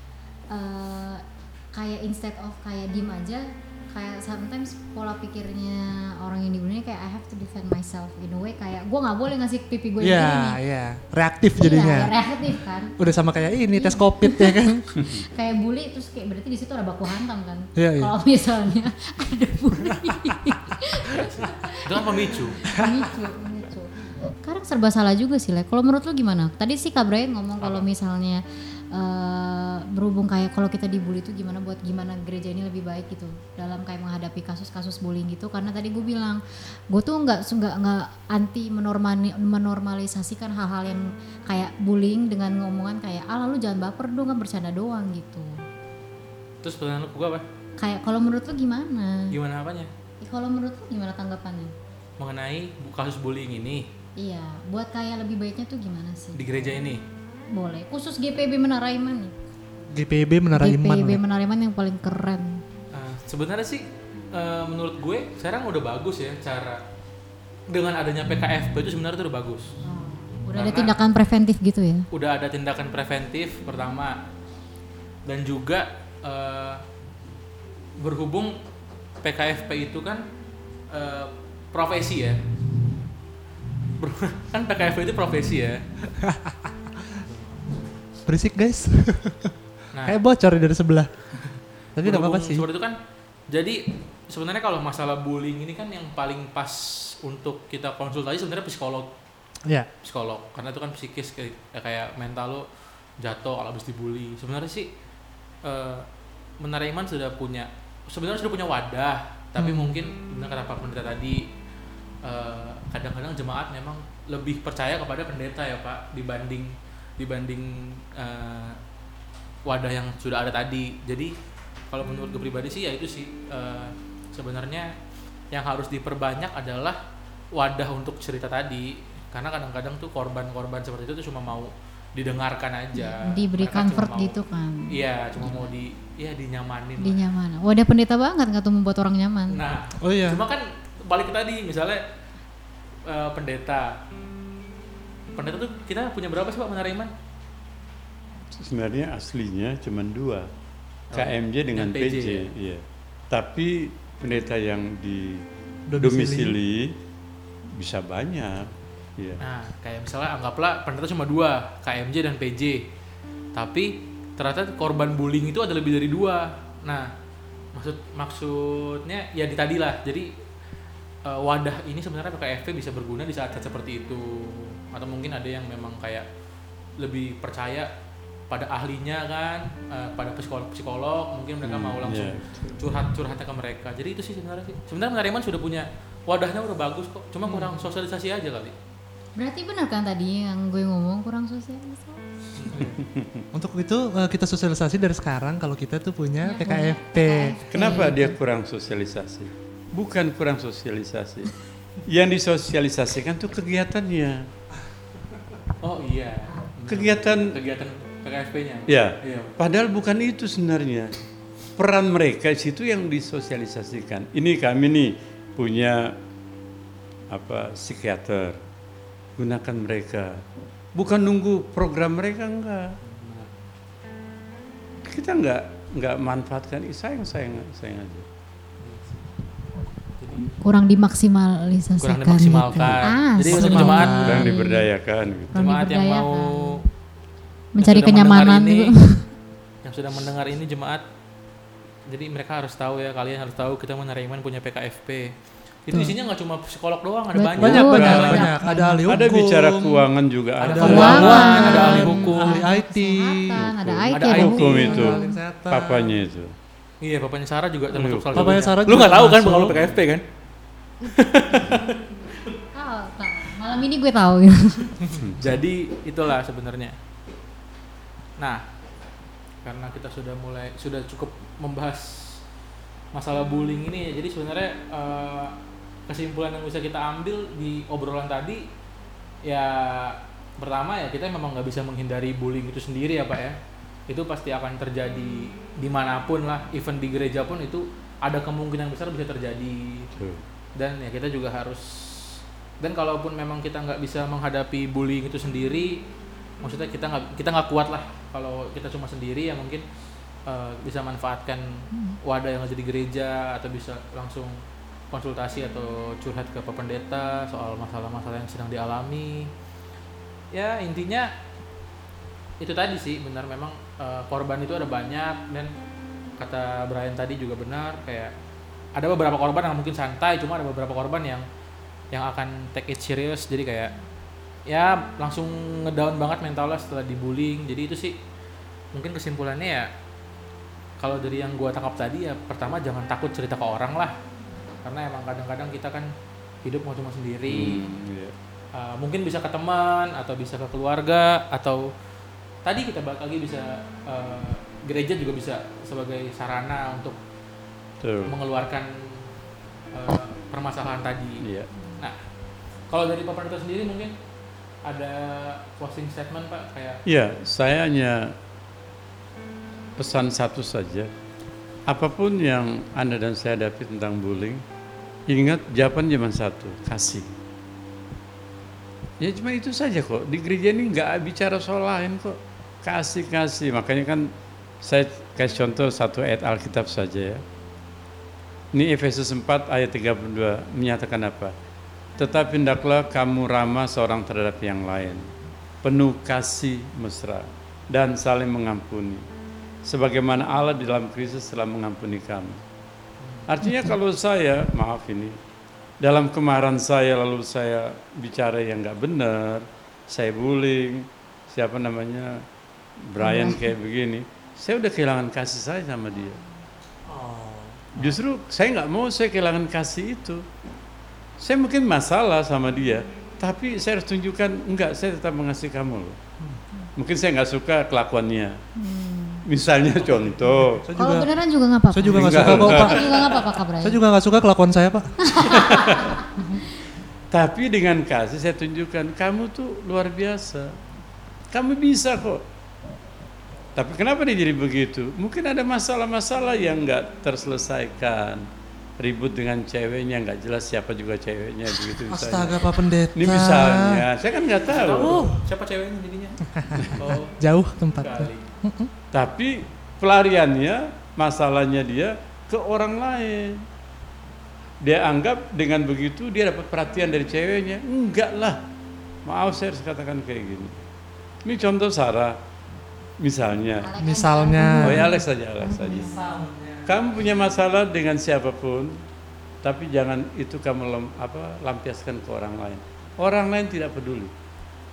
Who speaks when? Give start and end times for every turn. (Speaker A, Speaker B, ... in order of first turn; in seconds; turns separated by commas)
Speaker A: 0.5-10.6, Speaker B: 10.0-12.1, Speaker A: 11.6-12.9, Speaker B: 13.0-14.9, Speaker A: 13.7-45.6, Speaker B: 17.8-18.1, Speaker C: 21.2-22.6, Speaker C: 46.6-47.4, Speaker A: 47.8-49.4, Speaker C: 49.3-49.9, Speaker A: 50.2-51.7, Speaker C: 52.2-53.9, Speaker A: 54.1-56.5, Speaker C: 56.4-57.0, Speaker A: 57.5-59.3, Speaker B: 59.9-61.2, Speaker A: 60.5-62.6, Speaker C: 62.9-66.8, Speaker C: 67.7-69.7, Speaker A: 69.8-72.0, Speaker C: 70.5-71.0, Speaker C: 72.1-74.2, Speaker C: 75.2-76.8, Speaker C: 78.0-78.6, Speaker C: 79.2-80.2, Speaker C: 80.9-82.4, Speaker C: 84.0-85.8, Speaker B: 86.2-86.7, Speaker B: 88.2-91.4, Speaker C: 89.9-90.2, Speaker B: 91.9-92.7, Speaker C: 92.0-93.0, Speaker C: 93.5-99.1, Speaker C: 100.0-102.7, Speaker C: 103.2-104.9, Speaker C: 105.6-106.1, Speaker C: 106.6-111.5, Speaker B: 109.6-110.0, Speaker C: 112.2-118.8, Speaker C: 119.6-121.3, Speaker C: 121.9-124.9, Speaker C: 125.5-127.0, Speaker C: 127.5-134.4, Speaker A: 132.9-135.7, Speaker C: 134.9-137.2, Speaker A: 137.0-139.6, Speaker C: 139.5-142.0, Speaker B: 140.0-140.4, Speaker C: 143.0-144.0, Speaker C: 145.3-147.1, Speaker D: 148.5-150.5, Speaker C: 151.1-152.5, Speaker D: 151.1-155.4, Speaker B: 155.9-156.6, Speaker D: 156.0-156.9, Speaker D: 157.8-159.4, Speaker C: 159.4-162.8, Speaker C: 163.5-167.1, Speaker C: 167.7-170.3, Speaker C: 171.2-176.2, Speaker C: 177.0-177.9, Speaker C: 178.5-188.7, Speaker D: 181.6-182.6, Speaker A: 189.3-192.2, Speaker C: 192.6-192.9, Speaker D: 192.7-193.4, Speaker B: 192.7-197.9, Speaker A: 196.4-198.3, Speaker D: 197.7-204.5, Speaker C: 205.8-209.5, Speaker D: 206.9-207.6, Speaker D: 208.9-211.2, Speaker D: 211.8-216.2, Speaker D: 217.3-218.6, Speaker D: 219.4-220.4, Speaker D: 220.9-223.0, Speaker C: 223.0-223.6, Speaker D: 225.0-228.2, Speaker C: 228.8-229.2, Speaker C: 230.2-230.6, Speaker A: 230.6-234.9, Speaker C: 232.0-234.6, Speaker B: 232.7-234.5, Speaker D: 234.2-235.5, Speaker C: 235.5-236.8, Speaker A: 235.5-236.8, Speaker A: 237.7-239.3, Speaker C: 237.8-238.9, Speaker C: 239.8-241.0, Speaker C: 242.1-245.3, Speaker C: 245.8-248.6, Speaker A: 247.3-249.0, Speaker B: 247.6-250.1, Speaker D: 248.0-248.4, Speaker D: 249.1-252.1, Speaker C: 250.6-252.6, Speaker B: 250.6-253.6, Speaker A: 250.8-255.4, Speaker D: 253.6-256.5, Speaker C: 254.1-255.1, Speaker B: 254.8-256.2, Speaker C: 257.0-260.2, Speaker D: 257.9-258.6, Speaker B: 258.3-259.9, Speaker C: 261.0-262.0, Speaker A: 261.6-262.0, Speaker A: 262.7-265.0, Speaker D: 265.2-265.6, Speaker C: 265.4-266.9, Speaker C: 269.6-272.4, Speaker C: 273.1-275.6, Speaker C: 276.1-278.6, Speaker C: 279.4-283.6, Speaker C: 284.1-290.1, Speaker D: 290.1-290.4, Speaker C: 290.8-296.0, Speaker C: 296.6-299.8, Speaker C: 300.4-309.5, Speaker C: 310.5-311.3, Speaker C: 312.6-315.7, Speaker C: 316.4-318.3, Speaker C: 318.9-321.4, Speaker C: 322.1-323.9, Speaker C: 324.7-328.1, Speaker C: 328.9-329.9, Speaker C: 331.0-334.1, Speaker C: 334.8-336.1, Speaker C: 336.6-338.0, Speaker D: 337.5-338.3, Speaker C: 338.7-341.9, Speaker C: 342.6-347.2, Speaker D: 348.0-348.3, Speaker C: 348.2-349.3, Speaker C: 349.9-351.4, Speaker D: 351.4-351.7, Speaker C: 352.9-354.1, Speaker C: 354.8-357.0, Speaker D: 357.1-358.4, Speaker D: 360.0-361.1, Speaker D: 361.9-364.6, Speaker D: 365.3-367.3, Speaker D: 369.2-374.3, Speaker D: 374.8-377.4, Speaker D: 378.7-381.5, Speaker D: 382.2-385.3, Speaker D: 385.8-389.2, Speaker D: 389.8-392.6, Speaker D: 393.5-395.4, Speaker D: 396.0-402.4, Speaker D: 403.0-406.4, Speaker A: 403.2-403.6, Speaker B: 407.1-407.9, Speaker D: 407.9-410.4, Speaker D: 411.4-416.2, Speaker D: 416.9-418.6, Speaker A: 418.8-419.4, Speaker D: 419.4-420.9, Speaker B: 420.8-421.3, Speaker A: 420.9-424.0, Speaker B: 421.9-423.2, Speaker D: 422.1-423.4, Speaker B: 423.8-425.1, Speaker A: 425.2-426.2, Speaker B: 426.3-426.6, Speaker D: 427.3-430.8, Speaker D: 431.5-432.4, Speaker D: 433.7-438.4, Speaker D: 439.0-445.2, Speaker B: 441.9-444.0, Speaker C: 444.6-448.4, Speaker B: 445.0-445.4, Speaker B: 446.4-448.9, Speaker D: 449.1-453.6, Speaker D: 454.8-458.6, Speaker D: 459.2-460.8, Speaker D: 461.4-462.4, Speaker D: 463.2-463.9, Speaker A: 463.8-466.2, Speaker B: 464.0-465.1, Speaker D: 464.8-466.1, Speaker B: 465.9-466.9, Speaker D: 466.9-469.0, Speaker D: 469.6-474.3